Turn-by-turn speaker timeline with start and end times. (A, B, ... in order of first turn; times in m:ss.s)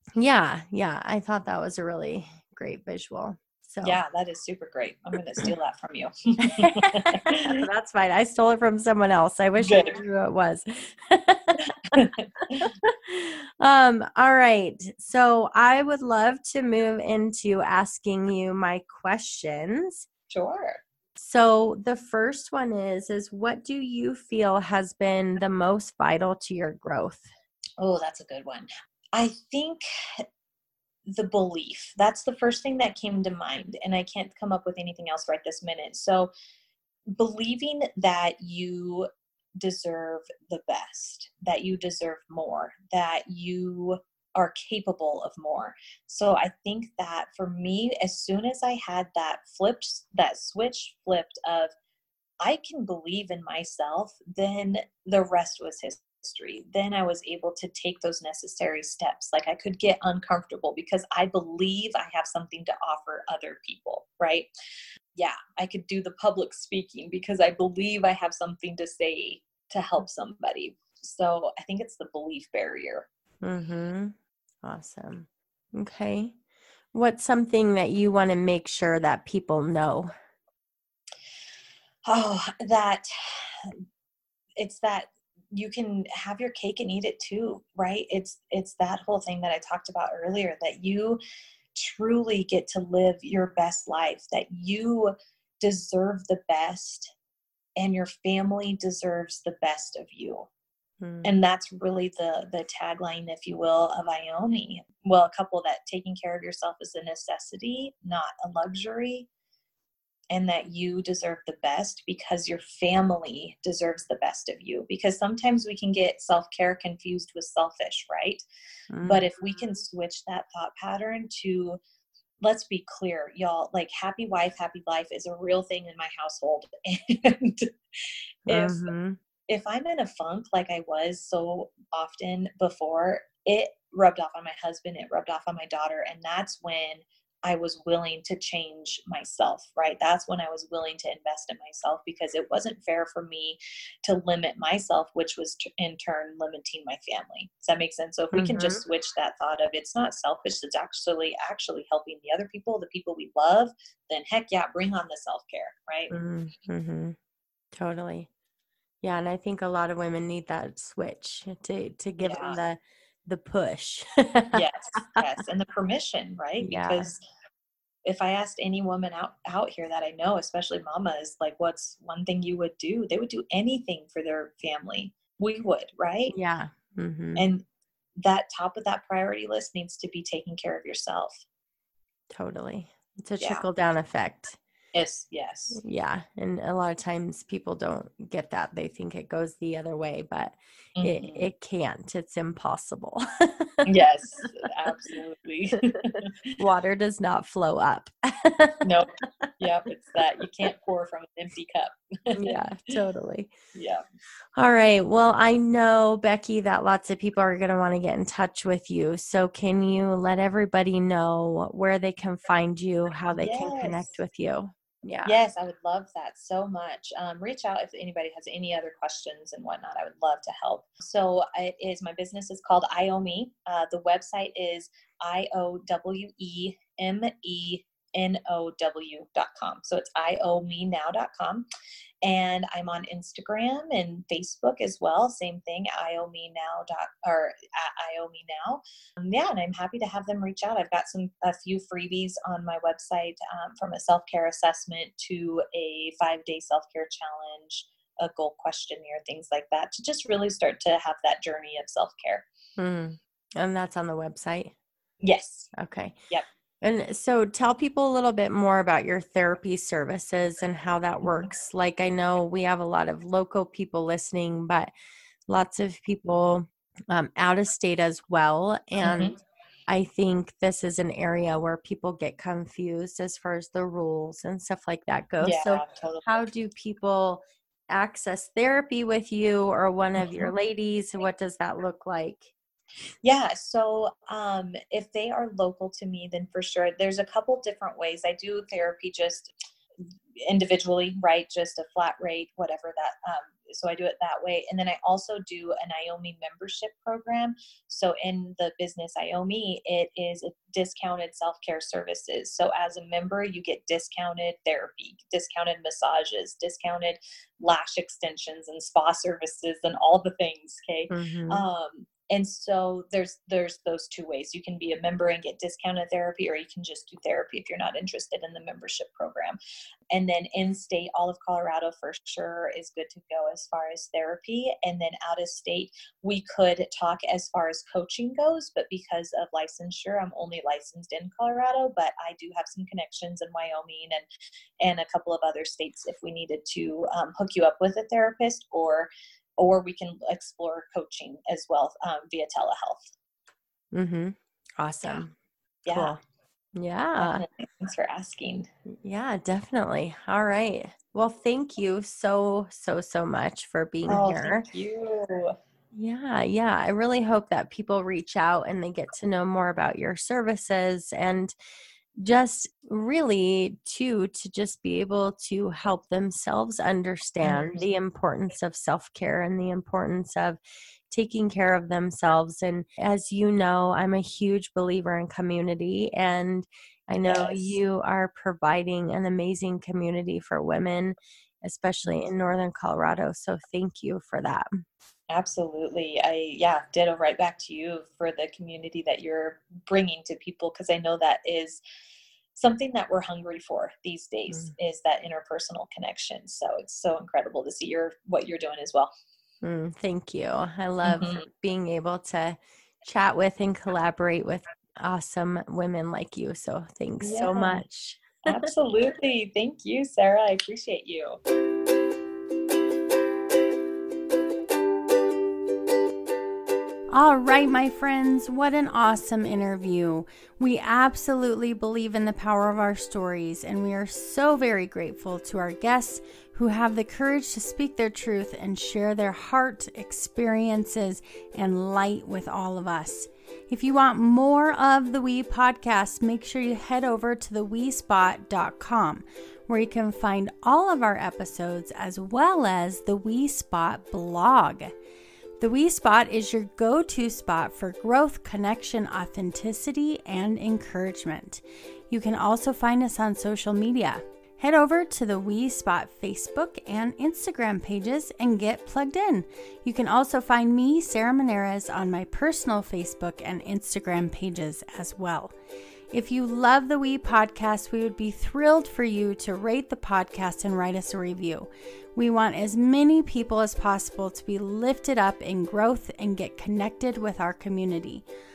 0:00.2-0:04.0 A
0:03.8-0:07.6 B
0:06.4-0:12.0 A
0:09.6-0:10.0 B
0:11.7-0:12.7 B
0:12.6-0:20.0 A
0:20.3-0:20.8 B
0:21.2-0:27.3 A
0:27.8-0:30.2 B
0:31.1-0:36.3 B
0:37.1-0:51.7 B
0:52.4-1:04.5 B
1:05.2-1:13.1 B
1:13.4-1:16.4 A
1:16.9-1:20.1 A
1:22.0-1:23.8 B
1:24.6-1:31.2 B
1:31.7-1:37.1 B
1:37.8-1:40.5 B
1:41.0-1:41.3 A
1:41.2-1:49.3 B
1:50.3-1:58.4 B
1:58.9-1:59.3 A
1:59.0-2:01.8 B
2:02.4-2:08.9 B
2:08.5-2:09.2 A
2:09.5-2:36.1 B
2:28.3-2:28.8 A
2:36.1-2:37.2 A
2:37.7-2:38.3 A
2:39.0-2:45.2 A
2:42.2-2:42.6 B
2:44.5-2:47.2 B
2:46.6-2:47.1 A
2:48.0-2:56.3 B
2:56.3-2:57.4 A
2:57.4-2:57.6 B
2:58.2-3:01.4 B
3:02.3-3:04.6 A
3:04.9-3:05.8 B
3:05.7-3:13.9 A
3:11.0-3:11.5 B
3:13.8-3:16.6 B
3:16.2-3:19.5 A
3:19.6-3:22.9 B
3:22.4-3:23.5 A
3:23.7-3:24.0 B
3:24.6-3:35.4 A
3:33.4-3:34.2 B
3:35.2-3:51.6 B
3:52.2-4:12.4 B
4:12.8-4:14.7 A
4:15.2-4:15.7 B
4:15.7-4:16.2 A
4:16.8-4:24.9 A
4:21.2-4:21.5 B
4:25.5-4:29.3 A
4:29.0-4:29.4 B
4:29.9-4:42.5 A
4:35.4-4:36.4 B
4:40.2-4:40.5 B
4:43.2-4:49.5 B
4:50.4-5:19.6 B
5:11.1-5:11.6 A
5:20.1-5:34.2 B
5:34.8-5:43.1 B
5:43.9-5:45.3 A
5:45.9-5:46.1 B
5:45.9-5:46.2 A
5:46.7-5:47.4 A
5:47.2-5:48.7 B
5:49.0-5:54.7 A
5:54.1-5:55.5 B
5:55.9-6:01.5 A
6:02.2-6:10.6 A
6:07.4-6:07.7 B
6:11.1-6:24.7 A
6:17.3-6:17.8 B
6:25.3-6:31.8 B
6:32.5-6:39.1 B
6:39.6-6:48.7 A
6:41.0-6:41.4 B
6:47.2-6:47.8 B
6:48.4-6:51.4 B
6:57.1-7:24.9 C
7:25.6-7:45.5 C
7:46.1-7:58.2 C